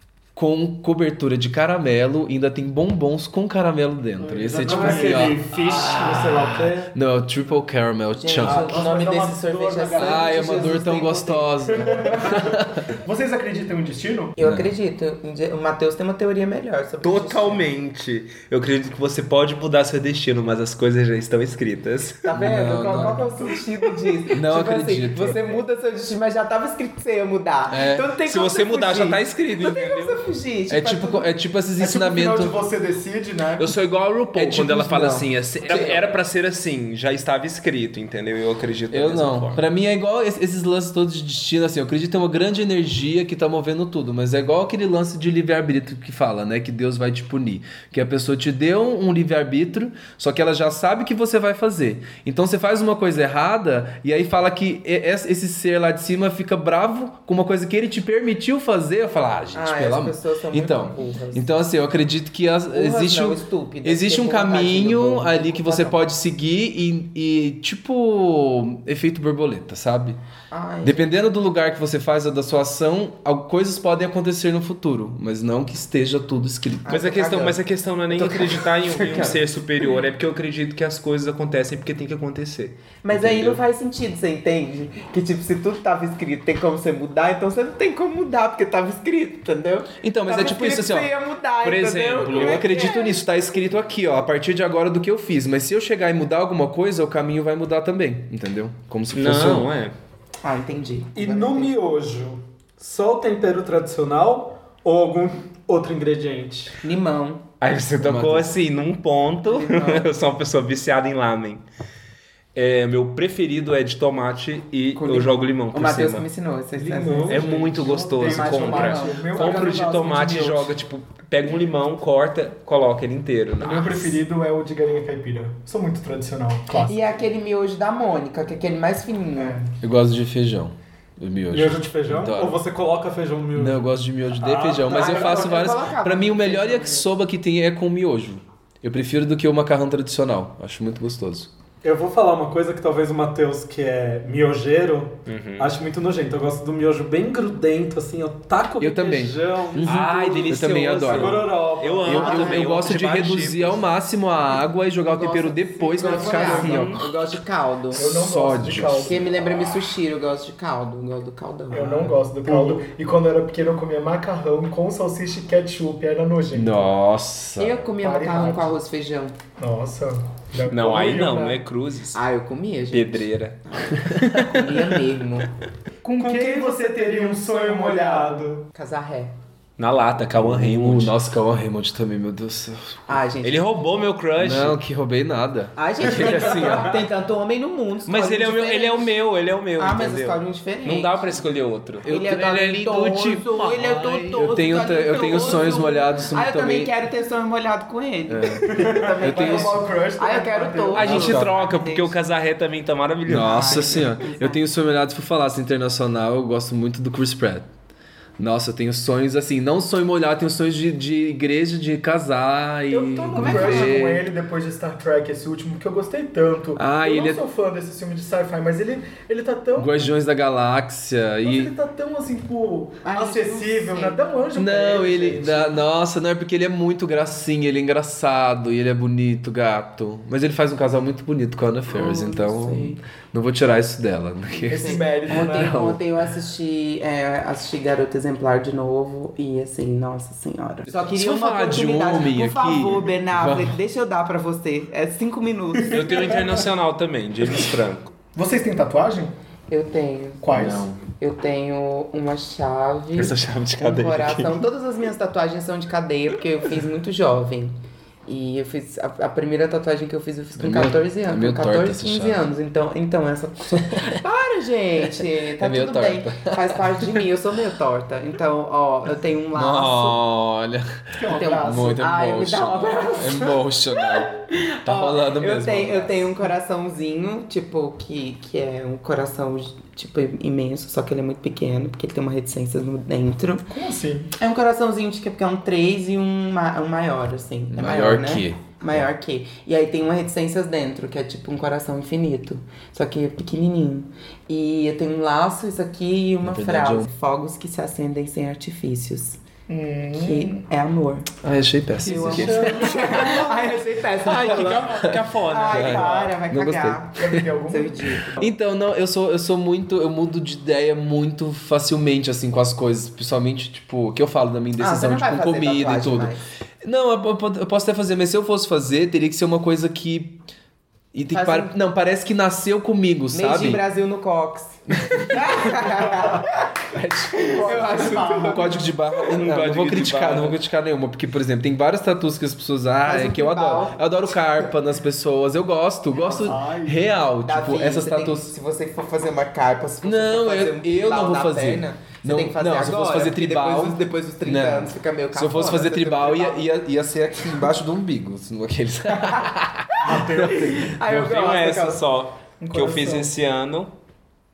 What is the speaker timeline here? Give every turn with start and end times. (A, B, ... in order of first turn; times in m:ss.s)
0:00.3-0:06.2 A
0:04.2-0:05.4 B
0:04.4-0:06.9 C
0:05.6-0:06.5 D
0:06.9-0:08.9 A
0:08.1-0:12.4 D
0:08.4-0:10.8 B
0:09.9-0:12.8 A
0:11.8-0:14.3 B
0:14.4-0:17.7 D
0:14.4-0:14.7 A
0:17.0-0:22.4 E
0:22.2-0:31.3 D
0:22.3-0:23.3 A
0:24.3-0:25.5 A
0:27.7-0:28.1 A
0:28.2-0:30.2 E
0:30.7-0:32.5 A
0:31.8-0:33.7 B
0:33.6-0:39.6 E
0:34.3-0:35.3 A
0:35.7-0:36.0 D
0:38.9-1:10.2 A
0:59.5-1:01.4 D
1:02.7-1:06.0 D
1:10.5-1:11.0 D
1:10.8-1:17.0 A
1:16.8-1:17.6 D
1:16.9-1:23.4 E
1:18.1-1:19.3 D
1:18.9-1:19.3 A
1:23.0-1:33.2 D
1:23.1-1:23.6 A
1:30.0-1:31.1 A
1:31.6-1:32.6 E
1:32.3-1:39.7 A
1:39.1-1:39.9 E
1:40.4-1:41.7 D
1:41.1-1:46.8 C
1:46.8-1:47.4 D
1:47.6-1:51.6 E
1:48.0-1:48.5 A
1:49.5-1:50.1 D
1:52.5-1:56.2 E
1:54.9-1:57.6 D
1:56.8-1:57.8 C
1:57.2-2:00.7 B
1:57.3-2:04.2 E
1:58.2-2:00.2 D
2:03.6-2:07.0 B
2:06.9-2:09.6 D
2:09.4-2:09.7 B
2:09.8-2:12.6 A
2:11.5-2:15.3 C
2:13.5-2:21.5 A
2:14.8-2:17.1 D
2:21.8-2:32.3 C
2:25.3-2:25.7 E
2:28.8-2:31.5 A
2:29.8-2:33.8 E
2:32.0-2:37.1 A
2:32.1-2:32.6 D
2:35.1-2:38.1 D
2:35.9-2:36.9 B
2:36.6-2:37.0 E
2:37.9-2:39.2 B
2:38.0-2:39.3 A
2:39.0-2:42.6 D
2:41.7-2:46.9 B
2:41.7-2:42.8 C
2:46.5-2:47.8 A
2:47.6-2:49.4 D
2:48.0-2:48.7 B
2:49.6-2:51.6 B
2:50.7-2:52.2 E
2:52.1-2:55.5 D
2:52.9-2:53.6 E
2:56.0-2:58.4 B
2:56.2-2:58.7 C
2:58.7-2:59.3 D
2:59.8-3:01.1 E
3:00.4-3:03.0 A
3:03.1-3:03.6 D
3:03.4-3:04.8 E
3:04.4-3:07.0 A
3:05.8-3:09.0 D
3:08.0-3:13.3 E
3:09.8-3:11.4 D
3:12.0-3:13.5 A
3:12.0-3:22.1 D
3:13.9-3:14.4 C
3:14.3-3:16.9 A
3:18.3-3:19.8 A
3:18.7-3:21.4 B
3:20.9-3:24.2 E
3:21.1-3:21.4 A
3:23.2-3:24.6 D
3:23.3-3:27.7 A
3:28.4-3:34.3 A
3:32.9-3:40.1 B
3:33.3-3:34.0 D
3:36.8-3:37.4 A
3:39.8-3:41.7 A
3:41.4-3:45.8 B
3:43.0-3:44.2 D
3:44.6-3:56.0 A
3:51.9-3:53.0 D
3:54.6-4:06.4 D
3:54.6-3:56.0 B
4:01.0-4:03.7 A
4:05.9-4:08.1 E
4:08.3-4:09.3 B
4:09.7-4:10.4 D
4:10.4-4:10.9 B
4:10.5-4:11.0 A
4:11.2-4:30.2 D
4:13.1-4:14.6 E
4:20.5-4:22.4 A
4:25.6-4:26.8 A
4:29.5-4:36.4 A
4:31.2-4:32.1 B
4:31.2-4:43.7 D
4:43.7-4:44.3 B
4:44.4-4:59.4 D
4:47.7-4:49.0 A
4:56.4-4:57.1 A
4:59.7-5:00.6 B
5:00.2-5:01.3 D
5:01.4-5:02.9 A
5:02.0-5:04.9 D
5:02.2-5:03.4 C
5:02.3-5:03.8 B
5:04.2-5:06.4 E
5:04.9-5:07.5 A
5:05.4-5:08.5 D
5:07.2-5:08.2 B
5:08.2-5:20.4 A
5:14.8-5:16.4 D
5:21.1-5:23.8 A
5:21.3-5:21.7 D
5:23.3-5:26.7 D
5:25.0-5:25.7 A
5:26.9-5:38.5 A
5:27.3-5:28.9 D
5:27.5-5:28.7 B
5:29.2-5:30.6 E
5:33.0-5:34.7 D
5:36.2-5:37.1 B
5:37.4-5:46.6 D
5:40.0-5:51.2 A
5:49.1-5:52.0 D
5:50.0-5:50.6 B
5:51.1-5:53.9 E
5:52.6-5:53.3 B